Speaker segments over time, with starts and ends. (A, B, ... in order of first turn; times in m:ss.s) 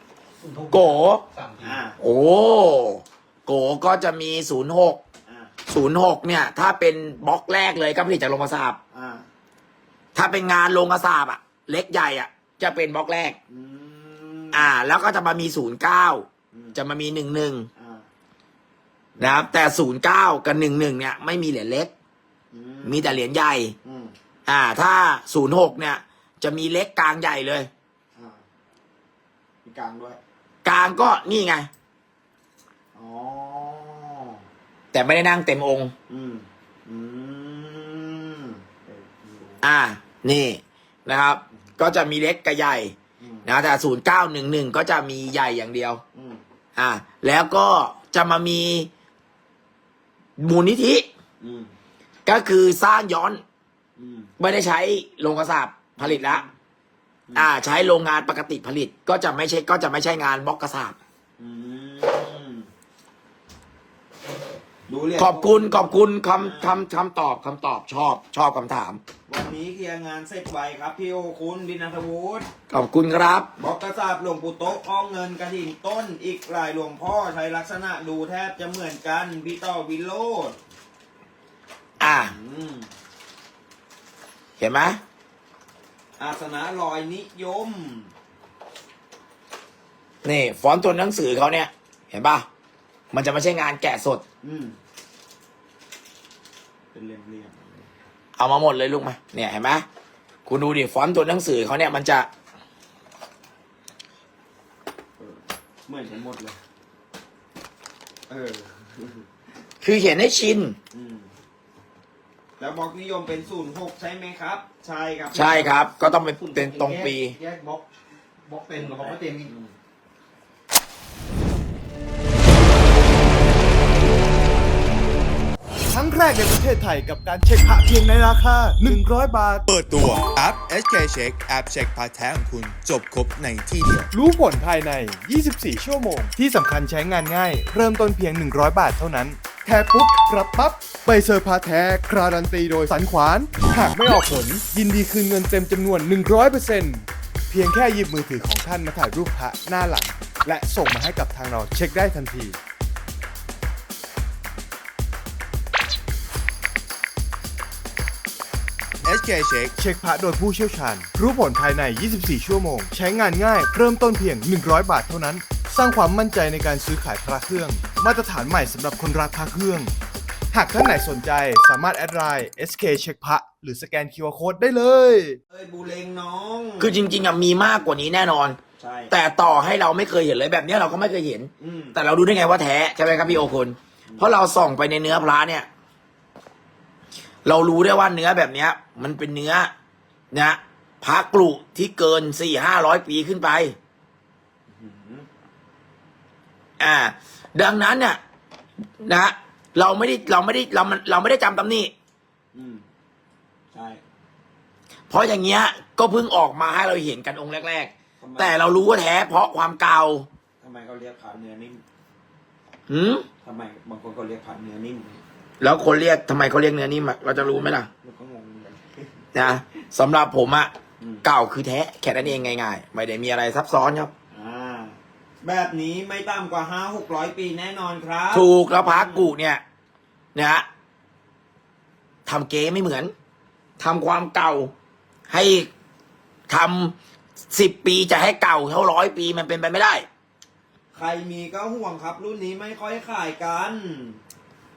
0:00.4-0:01.8 A
0:00.7-0:01.2 B
0:01.6-0:02.0 C
0:02.0-0:05.0 B
0:05.2-0:05.5 C
0:05.7-0:08.8 B
0:08.9-0:09.3 C
0:10.1-0:13.4 B
0:13.5-0:14.7 C
0:14.5-0:17.7 B
0:16.5-0:16.8 C
0:17.8-0:18.0 C
0:19.2-0:19.5 C
0:19.2-0:21.9 B
0:22.5-0:23.2 C
0:22.8-0:23.7 B
0:23.8-0:24.1 C
0:24.4-0:27.7 B
0:28.1-0:28.4 C
0:29.6-0:30.2 C
0:30.6-0:31.7 B
0:33.0-0:34.4 C
0:34.9-0:35.9 B
0:36.1-0:39.7 C
0:39.6-0:43.0 B
0:43.2-0:43.5 C
0:43.4-0:46.0 B
0:46.1-0:46.4 C
0:46.8-0:48.9 B
0:50.4-0:51.1 B
0:51.4-0:51.7 C
0:52.2-0:53.4 B
0:54.0-0:54.3 C
0:54.4-0:56.4 B
0:56.0-0:56.5 C
0:57.3-1:01.0 B
1:01.4-1:02.7 C
1:04.9-1:06.8 C
1:05.2-1:09.0 B
1:09.3-1:12.5 C
1:12.7-1:13.5 B
1:13.6-1:20.6 C
1:22.0-1:22.3 B
1:22.0-1:22.9 C
1:24.6-1:25.0 B
1:26.2-1:28.1 C
1:30.2-1:32.4 B
1:33.1-1:34.2 B
1:34.4-1:34.8 C
1:36.9-1:37.9 C
1:38.4-1:39.9 B
1:40.4-1:42.3 B
1:45.2-1:46.6 C
1:48.3-1:49.2 C
1:49.8-1:50.8 B
1:50.9-1:51.3 C
1:52.6-1:55.8 C
1:55.3-1:57.4 B
1:56.2-1:57.8 A
1:58.4-1:59.5 A
1:58.8-1:59.7 C
2:05.9-2:09.7 D
2:09.7-2:14.1 E
2:14.1-2:32.6 D
2:39.0-2:39.7 E
2:39.8-2:49.9 D
2:50.5-2:55.4 D
2:55.5-2:57.0 C
2:56.8-2:58.6 B
2:58.8-2:59.1 C
2:59.1-3:05.7 B
3:01.6-3:02.0 C
3:04.1-3:04.3 C
3:07.4-3:09.7 B
3:10.3-3:13.8 B
3:14.7-3:15.3 C
3:16.8-3:18.2 B
3:19.0-3:21.9 B
3:22.5-3:22.8 C
3:23.7-3:24.0 C
3:25.1-3:30.3 B
3:28.2-3:28.6 C
3:30.6-3:31.8 C
3:32.9-3:33.2 B
3:33.4-3:35.2 C
3:35.6-3:37.9 B
3:38.0-3:39.5 C
3:39.3-3:40.7 B
3:41.0-3:41.3 C
3:41.2-3:44.1 B
3:42.2-3:42.5 C
3:44.3-3:49.3 C
3:48.3-3:49.6 B
3:50.3-3:50.7 B
3:52.3-3:53.1 B
3:53.8-3:54.7 B
3:55.3-3:55.7 B
3:56.5-3:57.0 B
3:57.5-4:00.1 B
4:00.9-4:04.2 C